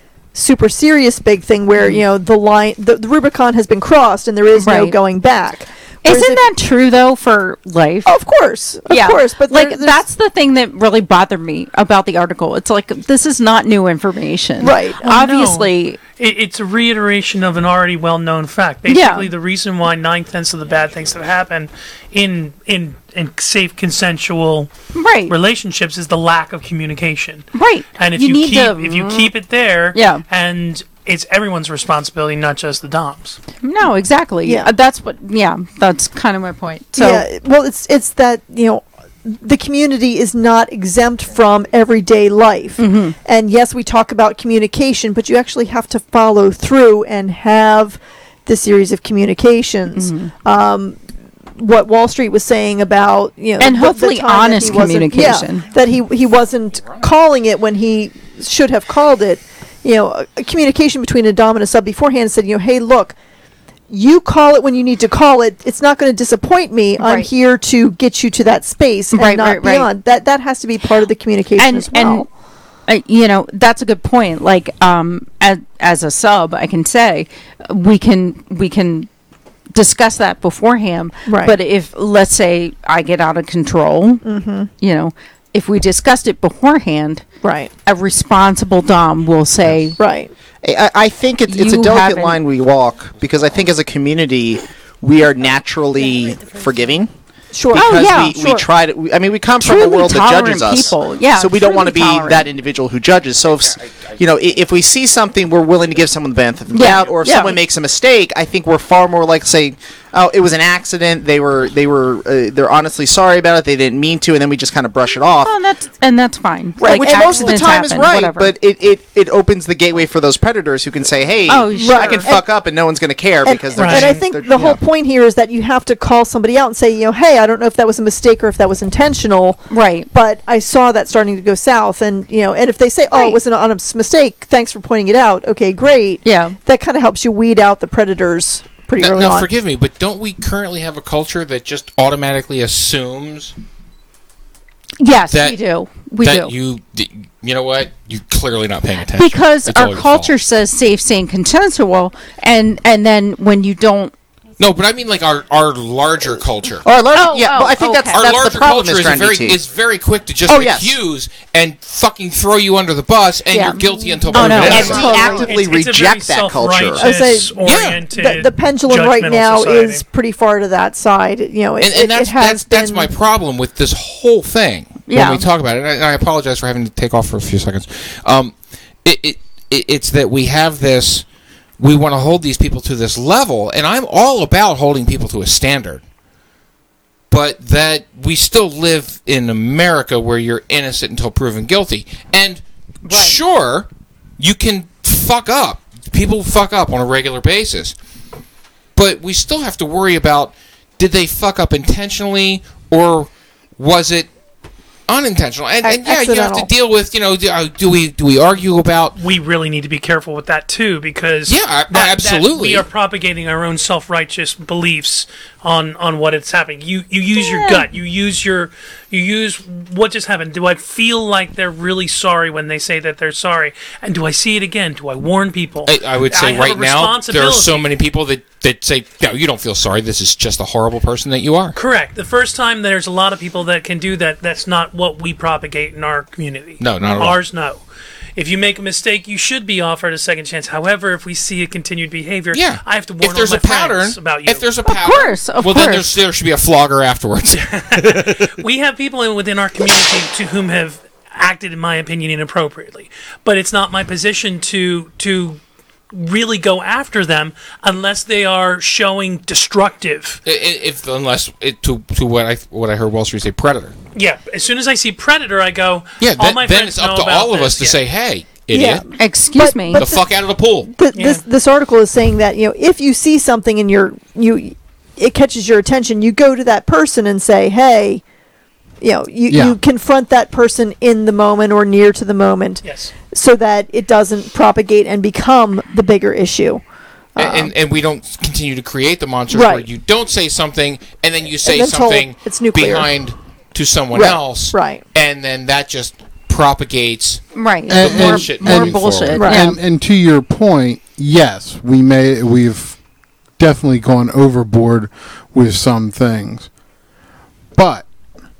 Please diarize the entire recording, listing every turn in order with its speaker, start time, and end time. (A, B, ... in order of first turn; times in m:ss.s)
0:00.3-0:06.4 A
0:01.8-0:02.0 B
0:04.6-0:05.0 B
0:06.0-0:08.1 B
0:08.0-0:10.0 A
0:08.9-0:16.0 B
0:14.6-0:15.3 A
0:15.2-0:24.7 C
0:18.9-0:19.3 B
0:24.9-0:25.3 B
0:25.3-0:33.4 C
0:27.5-0:29.3 B
0:29.9-0:30.2 B
0:33.6-0:37.2 B
0:34.4-0:34.7 A
0:37.0-0:51.0 A
0:42.8-0:43.2 B
0:49.9-0:50.3 B
0:51.6-1:03.2 A
0:53.6-0:55.7 B
1:03.9-1:12.3 A
1:07.0-1:07.3 B
1:09.1-1:09.9 B
1:11.6-1:12.2 B
1:12.9-1:19.1 B
1:19.7-1:24.2 B
1:21.3-1:21.6 A
1:24.2-1:24.7 A
1:24.8-1:27.2 B
1:27.4-1:27.7 A
1:27.8-1:30.0 B
1:30.0-1:30.3 A
1:30.6-1:37.1 D
1:31.5-1:32.4 B
1:37.5-1:38.2 A
1:37.7-1:55.5 D
1:37.7-1:38.6 B
1:39.6-1:42.5 B
1:43.8-1:44.2 E
1:46.7-1:47.6 B
1:55.4-1:58.5 B
1:56.8-2:04.8 D
1:56.8-1:57.6 A
2:01.5-2:02.3 B
2:01.7-2:02.5 A
2:03.4-2:19.5 A
2:03.7-2:04.2 C
2:09.7-2:10.1 B
2:13.1-2:13.4 B
2:16.2-2:16.6 B
2:19.0-2:23.5 E
2:25.0-2:26.5 B
2:25.3-2:25.6 E
2:26.2-2:30.3 E
2:29.2-2:34.1 B
2:34.6-2:36.8 E
2:36.8-2:39.6 D
2:37.1-2:38.2 B
2:38.1-2:45.1 E
2:40.4-2:40.9 D
2:43.5-2:43.8 B
2:43.6-2:45.6 A
2:44.3-2:45.4 B
2:44.4-2:47.0 D
2:45.4-2:50.0 C
2:46.9-2:47.6 A
2:47.6-2:48.0 E
2:48.1-2:53.1 A
2:51.8-2:58.5 E
2:55.1-2:55.4 B
2:59.0-3:01.2 E
3:01.8-3:06.0 E
3:07.3-3:13.9 E
3:13.0-3:13.4 B
3:14.4-3:18.0 E
3:19.0-3:24.3 E
3:25.1-3:29.2 E
3:25.8-3:26.7 A
3:29.2-3:47.9 C
3:31.5-3:32.8 E
3:37.4-3:37.8 B
3:45.8-3:51.8 E
3:51.7-3:57.8 C
3:56.8-3:57.4 E
3:58.3-4:04.7 C
4:02.5-4:08.4 E
4:04.9-4:06.1 B
4:07.9-4:15.6 C
4:16.1-4:20.4 C
4:20.4-4:23.9 E
4:24.1-4:28.0 C
4:26.2-4:29.1 E
4:28.7-4:30.2 A
4:29.2-4:30.0 B
4:30.0-4:30.9 E
4:30.9-4:38.2 A
4:31.1-4:31.4 C
4:39.0-4:46.8 A
4:39.5-4:39.8 F
4:42.8-4:43.1 C
4:47.4-4:47.7 A
4:47.4-4:59.4 E
4:49.5-4:49.8 A
4:51.6-4:53.1 A
4:54.2-4:55.0 A
4:57.6-4:59.8 B
4:57.9-5:03.0 F
4:59.4-4:59.6 A
5:03.6-5:06.7 F
5:07.7-5:08.1 F